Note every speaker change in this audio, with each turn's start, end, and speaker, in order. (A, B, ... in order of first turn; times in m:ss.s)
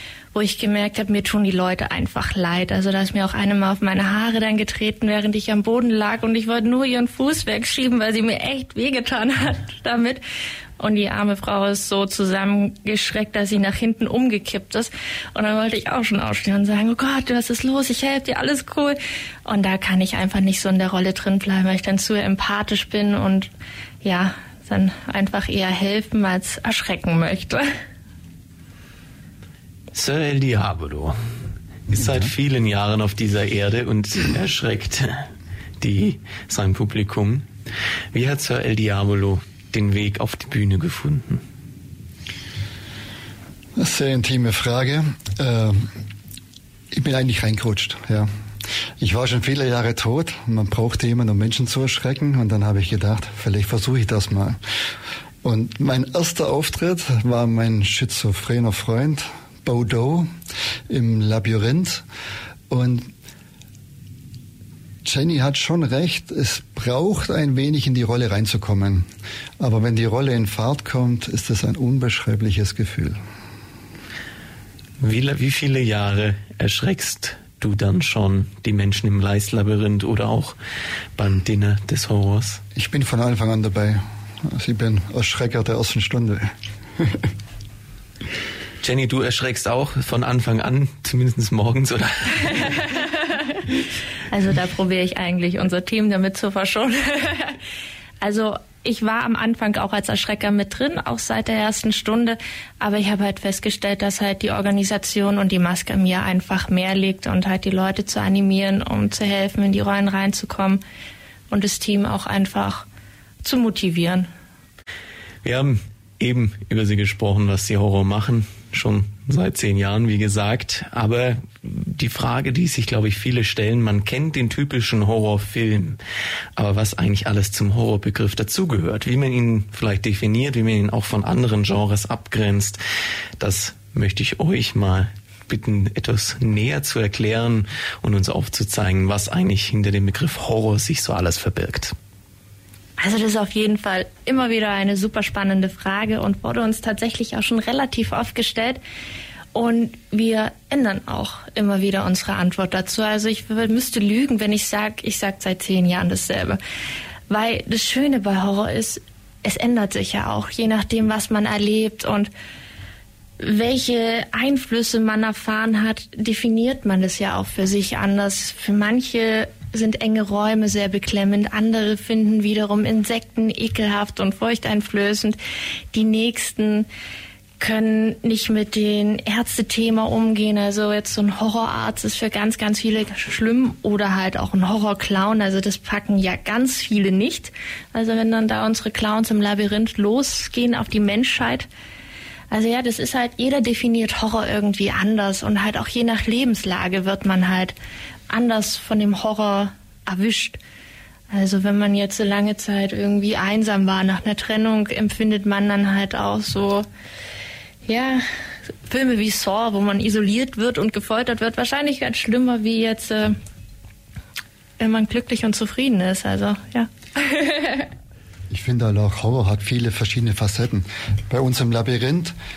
0:00.3-0:10.2 A
0:10.8-0:23.5 A
0:24.0-0:27.7 A
0:29.9-0:31.2 B
0:31.9-0:35.3 B
0:35.8-0:37.4 B
0:38.1-0:41.4 B
0:43.8-0:45.9 C
0:46.9-0:48.3 C
0:49.0-0:54.6 C
0:55.4-1:00.3 C
1:00.9-1:02.0 C
1:02.7-1:03.1 C
1:05.0-1:09.1 C
1:09.6-1:13.2 C
1:15.0-1:20.6 B
1:21.2-1:22.6 B
1:22.7-1:27.3 C
1:28.8-1:32.8 B
1:34.3-1:37.6 A
1:38.2-1:50.8 A
1:51.5-1:52.8 A
1:53.4-1:54.3 A
1:55.4-2:06.0 B
2:06.6-2:12.8 B
2:13.4-2:21.9 B
2:23.0-2:28.8 A
2:29.5-2:36.6 A
2:37.3-2:42.3 A
2:43.4-2:55.4 A
2:55.9-2:56.9 A
2:57.6-3:11.7 A
3:12.5-3:17.7 A
3:18.3-3:20.6 A
3:21.3-3:26.9 A
3:27.9-3:28.2 A
3:28.9-3:33.4 A
3:34.8-3:37.9 A
3:38.5-3:42.3 C